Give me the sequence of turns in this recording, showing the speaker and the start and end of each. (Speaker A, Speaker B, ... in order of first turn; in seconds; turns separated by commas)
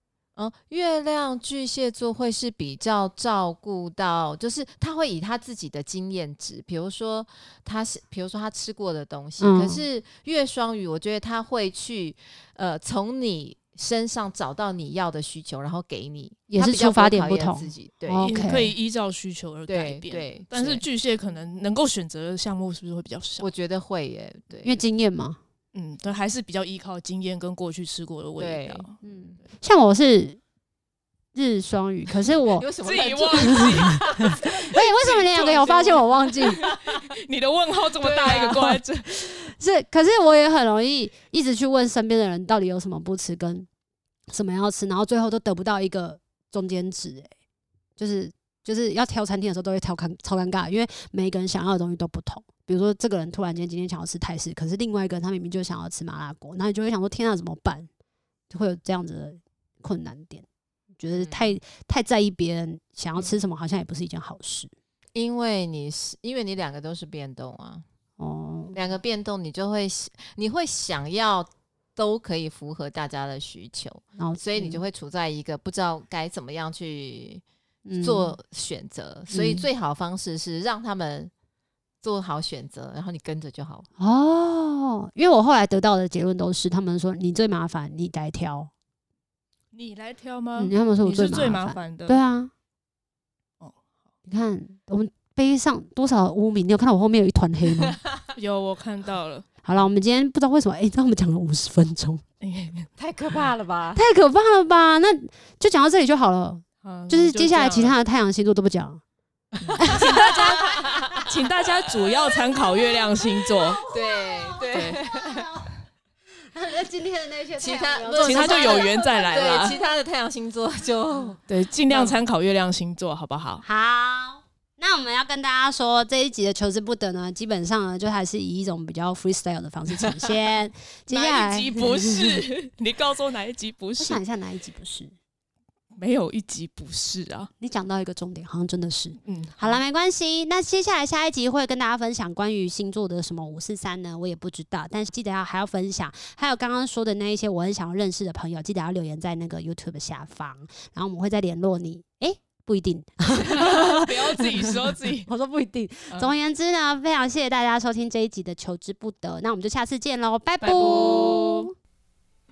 Speaker A: 0.4-18.6, Speaker B: 9.4-9.8, Speaker B: 16.5-18.7, Speaker C: 18.2-23.5, Speaker A: 19.7-20.9, Speaker A: 23.4-24.8, Speaker B: 24.6-25.4, Speaker C: 25.7-29.0, Speaker A: 28.4-28.9, Speaker B: 29.0-30.4, Speaker B: 31.3-32.7, Speaker A: 32.5-34.5, Speaker C: 32.8-39.1, Speaker B: 33.4-36.6, Speaker A: 36.8-37.0, Speaker A: 38.0-38.6, Speaker B: 38.3-43.7, Speaker B: 44.3-47.3, Speaker B: 48.0-57.9, Speaker B: 58.5-60.5, Speaker B: 61.0-64.7, Speaker A: 61.1-61.5, Speaker A: 65.1-67.8, Speaker B: 68.2-68.8, Speaker A: 68.7-77.4, Speaker B: 74.2-74.8, Speaker B: 77.8-78.3, Speaker A: 78.0-81.3, Speaker B: 79.3-79.7, Speaker A: 82.0-83.9, Speaker B: 84.0-88.7, Speaker C: 89.7-92.2, Speaker B: 90.6-92.5, Speaker B: 94.3-98.0, Speaker A: 97.8-98.2, Speaker C: 98.3-99.5, Speaker B: 99.6-102.2, Speaker C: 102.4-102.9, Speaker A: 103.0-104.0, Speaker B: 104.0-109.0, Speaker C: 106.8-108.0, Speaker A: 109.6-111.3, Speaker C: 109.6-113.8, Speaker B: 109.8-110.6, Speaker B: 112.5-113.0, Speaker B: 113.6-115.7, Speaker A: 113.9-115.5, Speaker B: 116.5-119.9, Speaker A: 117.6-122.2, Speaker C: 118.2-119.8, Speaker C: 121.5-123.7, Speaker B: 123.6-132.5, Speaker C: 131.1-134.2, Speaker B: 134.0-135.1, Speaker C: 136.0-137.5, Speaker B: 137.6-161.7, Speaker C: 139.2-139.8, Speaker C: 153.4-155.3, Speaker C: 160.6-161.7